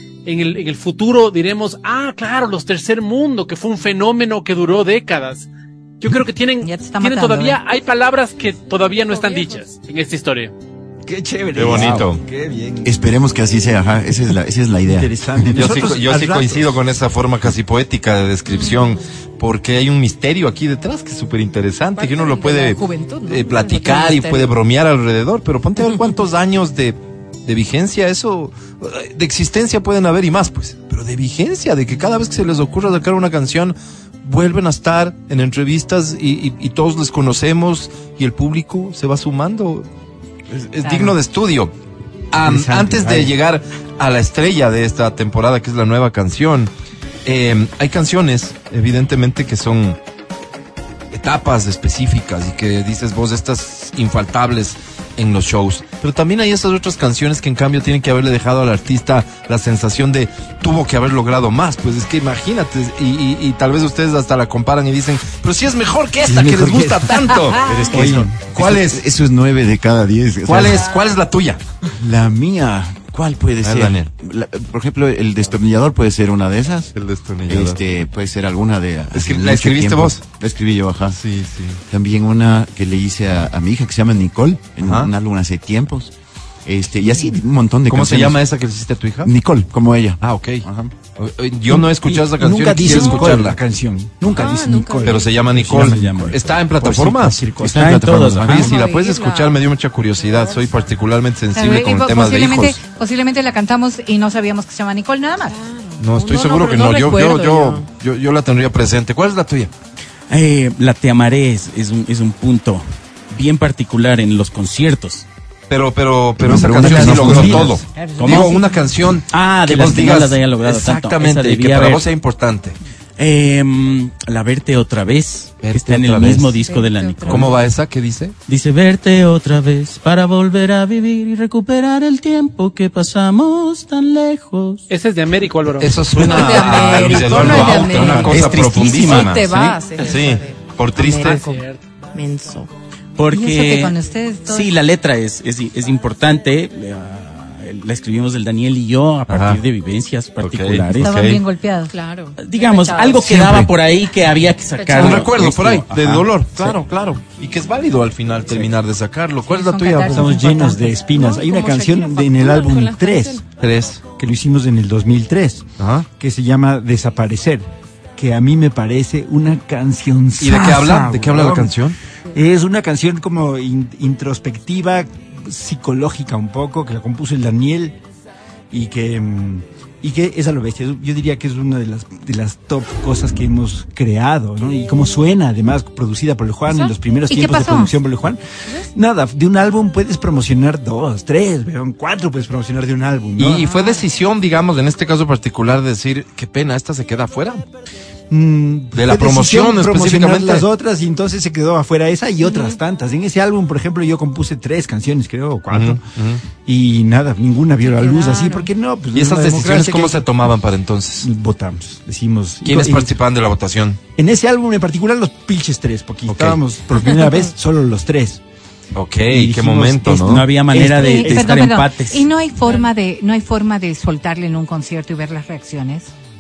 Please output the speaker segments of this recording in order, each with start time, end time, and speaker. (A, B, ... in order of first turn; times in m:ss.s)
0:00.3-0:05.5 A
0:06.0-0:10.5 A
0:06.6-0:07.6 B
0:08.8-0:09.6 C
0:11.1-0:13.0 D
0:11.6-0:12.2 E
0:12.8-0:15.7 F
0:14.9-0:16.6 D
0:15.5-0:39.9 E
0:18.5-0:19.0 C
0:22.0-0:24.5 C
0:40.5-0:41.7 E
0:42.3-0:46.7 E
0:42.4-0:43.3 D
0:47.2-0:50.0 E
0:51.1-1:09.0 E
1:06.2-1:08.4 D
1:07.6-1:10.8 F
1:07.9-1:08.2 G
1:10.4-1:11.6 E
1:12.0-1:16.9 F
1:13.6-1:14.1 E
1:16.9-1:17.8 E
1:17.5-1:21.2 F
1:19.1-1:20.2 E
1:21.1-1:21.8 E
1:21.9-1:26.1 F
1:24.8-1:25.1 E
1:26.6-1:28.4 F
1:27.9-1:29.3 E
1:29.2-1:30.9 F
1:30.2-1:33.6 E
1:31.7-1:38.6 D
1:34.3-1:35.3 C
1:35.0-1:37.4 E
1:35.6-1:36.4 G
1:37.6-1:38.8 G
1:37.7-1:38.2 F
1:38.2-1:42.8 E
1:38.6-1:39.6 C
1:40.2-1:40.7 C
1:41.6-1:45.6 B
1:45.5-1:47.8 C
1:46.0-1:49.7 E
1:50.3-1:55.2 G
1:55.7-2:02.8 E
1:56.4-1:57.7 D
1:56.5-1:57.7 F
1:56.9-1:57.6 G
1:58.0-1:58.8 B
1:58.2-1:58.6 G
1:59.3-2:02.1 G
2:03.2-2:07.6 G
2:05.6-2:06.5 E
2:06.7-2:07.5 C
2:06.7-2:07.4 B
2:07.3-2:08.4 E
2:08.5-2:14.9 G
2:14.9-2:16.9 A
2:15.8-2:21.4 E
2:16.2-2:21.6 C
2:17.0-2:19.7 G
2:20.0-2:20.3 A
2:21.0-2:21.8 A
2:22.1-2:22.7 C
2:23.2-2:31.3 G
2:23.3-2:24.7 B
2:29.3-2:29.6 E
2:30.4-2:31.4 E
2:31.0-2:31.9 B
2:31.9-2:33.4 C
2:32.4-2:36.8 G
2:33.3-2:33.7 E
2:34.7-2:35.3 C
2:34.9-2:40.4 E
2:39.5-2:41.0 B
2:40.1-2:43.4 D
2:41.1-2:43.4 C
2:43.6-2:44.0 E
2:44.1-2:47.6 D
2:45.8-2:46.1 E
2:48.2-2:51.7 D
2:50.4-2:52.0 E
2:52.3-2:58.0 D
2:58.7-3:08.4 D
3:06.7-3:08.0 B
3:08.9-3:13.7 D
3:13.4-3:17.6 E
3:18.3-3:26.0 D
3:18.9-3:20.6 E
3:22.4-3:22.8 C
3:25.7-3:26.4 E
3:26.6-3:30.3 D
3:27.8-3:28.7 C
3:29.1-3:31.3 E
3:31.2-3:33.1 D
3:32.6-3:34.0 E
3:34.2-3:38.4 D
3:36.3-3:36.6 E
3:38.9-3:40.5 E
3:39.3-3:41.6 D
3:40.2-3:42.3 G
3:40.8-3:46.1 B